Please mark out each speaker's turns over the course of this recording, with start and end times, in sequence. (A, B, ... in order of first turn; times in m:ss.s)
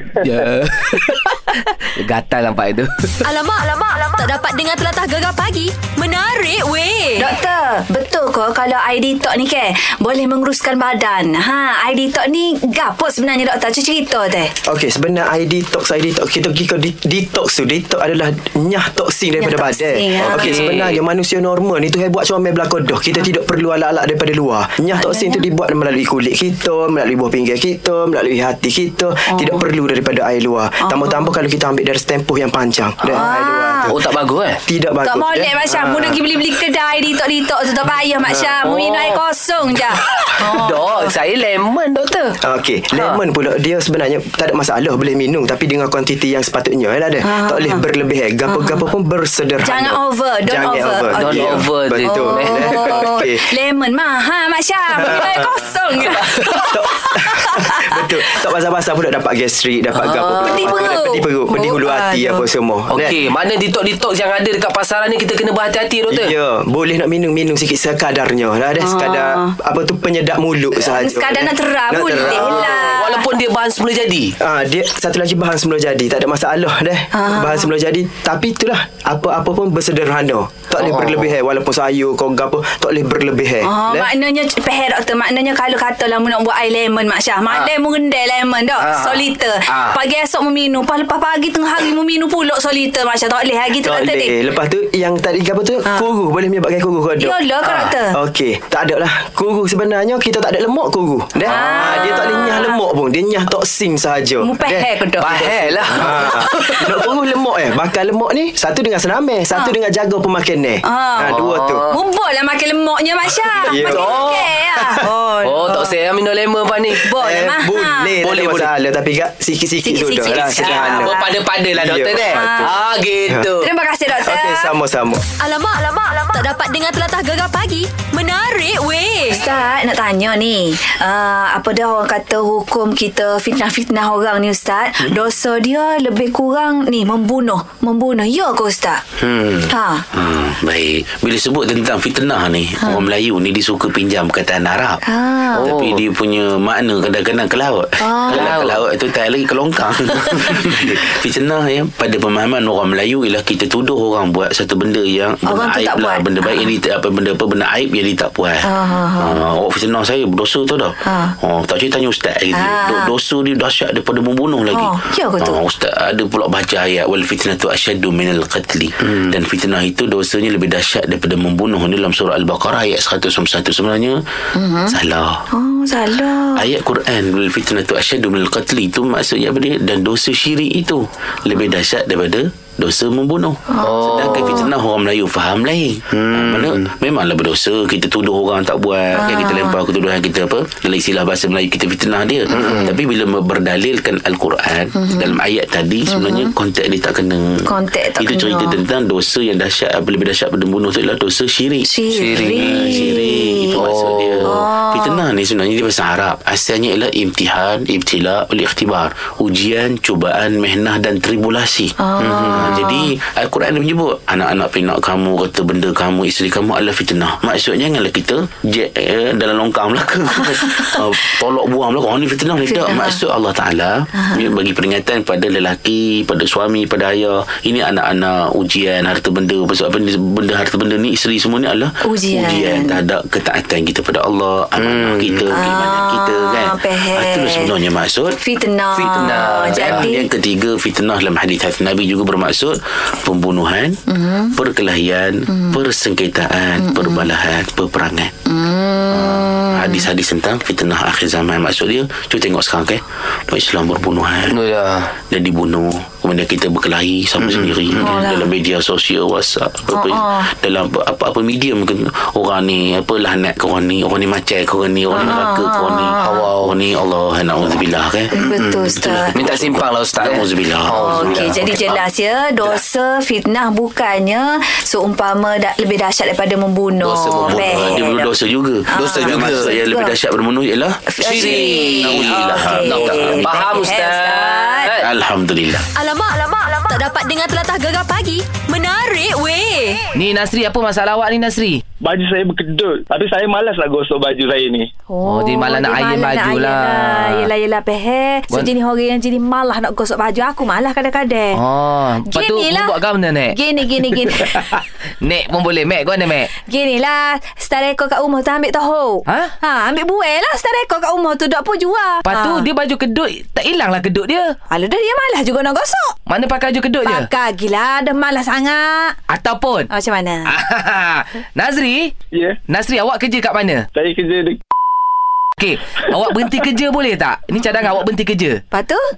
0:00.2-0:03.3 A
0:03.2-0:07.3 B
0:07.2-0:14.5 C
0:14.6-0:34.1 D
0:19.4-0:20.7 C
0:20.2-0:21.0 A
0:25.0-0:25.4 C
0:29.3-0:29.6 C
0:30.8-0:31.3 C
0:33.1-0:34.0 C
0:33.8-0:34.6 A
0:34.6-0:36.2 D
0:35.0-0:41.2 C
0:38.6-0:39.2 A
0:40.0-0:42.4 A
0:42.4-0:53.5 D
0:42.9-0:43.2 A
0:47.2-0:47.8 C
0:48.5-0:48.9 C
0:49.6-0:51.4 C
0:51.1-0:53.1 A
0:52.0-0:56.7 C
0:55.0-1:03.2 D
0:56.2-0:56.5 A
0:57.4-0:58.0 C
0:59.9-1:00.7 A
1:00.4-1:02.5 C
1:02.9-1:06.4 A
1:06.1-1:12.8 D
1:08.8-1:09.5 C
1:10.9-1:13.3 C
1:12.2-1:14.4 A
1:14.4-1:24.1 D
1:17.1-1:17.7 C
1:20.8-1:21.3 A
1:23.6-1:34.4 C
1:28.8-1:30.0 A
1:33.8-1:37.4 D
1:37.2-1:38.2 C
1:37.6-1:38.0 A
1:38.1-1:51.9 D
1:41.4-1:42.8 C
1:41.5-1:42.1 A
1:44.4-1:45.6 C
1:45.2-1:47.1 A
1:46.2-1:46.5 C
1:50.8-1:56.0 C
1:51.2-1:52.0 A
1:53.6-1:54.9 D
1:53.7-1:54.5 A
1:55.4-1:57.1 A
1:57.0-1:58.2 C
1:57.2-2:01.2 D
1:58.2-1:58.7 A
1:59.8-2:01.3 C
2:00.5-2:03.7 A
2:01.8-2:02.8 D
2:02.2-2:02.8 C
2:03.3-2:03.6 D
2:03.6-2:04.7 C
2:04.2-2:05.2 D
2:05.4-2:09.4 B
2:09.3-2:19.0 C
2:19.3-2:25.0 E
2:19.7-2:20.1 C
2:22.8-2:23.1 C
2:25.1-2:25.7 C
2:25.5-2:26.0 A
2:25.6-2:54.2 E
2:28.0-2:28.4 C
2:28.3-2:28.8 A
2:35.4-2:36.7 C
2:38.6-2:39.4 C
2:41.1-2:41.3 C
2:42.5-2:43.1 C
2:44.7-2:45.6 C
2:54.6-2:55.0 C
2:54.9-2:55.3 E
2:55.5-2:56.7 C
2:56.6-3:58.4 E
3:03.7-3:04.7 C
3:04.0-3:04.3 A
3:09.2-3:09.8 C
3:12.6-3:13.0 C
3:14.9-3:15.4 C
3:16.1-3:16.5 C
3:17.7-3:18.8 C
3:21.8-3:23.9 C
3:24.4-3:25.3 C
3:32.0-3:33.1 C
3:40.4-3:41.2 C
3:42.6-3:43.2 C
3:44.2-3:44.5 C
3:52.0-3:53.0 C
3:54.9-3:55.4 A
3:55.5-3:57.8 C
3:58.4-4:00.3 C
3:59.0-4:00.1 A
3:59.7-4:04.0 E
4:04.1-4:04.6 C
4:04.5-4:08.3 E
4:05.5-4:05.8 C
4:06.8-4:07.3 C
4:08.5-4:10.1 C
4:09.1-4:14.6 E
4:14.6-4:15.0 A
4:15.3-4:31.7 E
4:18.0-4:18.5 C
4:19.9-4:20.5 C
4:25.1-4:26.5 C
4:28.3-4:29.5 C
4:29.4-4:31.9 A
4:30.9-4:38.3 C
4:37.0-4:37.9 A
4:37.4-4:43.7 E
4:38.9-4:40.2 C
4:39.0-4:39.8 A
4:41.1-4:45.0 C
4:41.2-4:45.1 A
4:45.0-4:45.9 E
4:45.9-4:50.0 B
4:50.2-4:51.8 A
4:52.0-4:54.9 F
4:55.1-5:01.6 C
4:55.2-4:57.5 A
5:01.5-5:06.5 A
5:02.2-5:03.0 C
5:03.5-5:04.6 C
5:06.6-5:12.7 C
5:09.3-5:09.5 A
5:12.2-5:14.6 A
5:14.7-5:16.2 C
5:16.3-5:17.3 A
5:17.0-5:19.2 C
5:19.3-5:19.9 A
5:19.9-5:20.5 C
5:20.5-5:22.1 A
5:22.7-5:23.9 A
5:24.0-5:24.6 F
5:25.6-5:28.6 A
5:28.7-5:29.0 C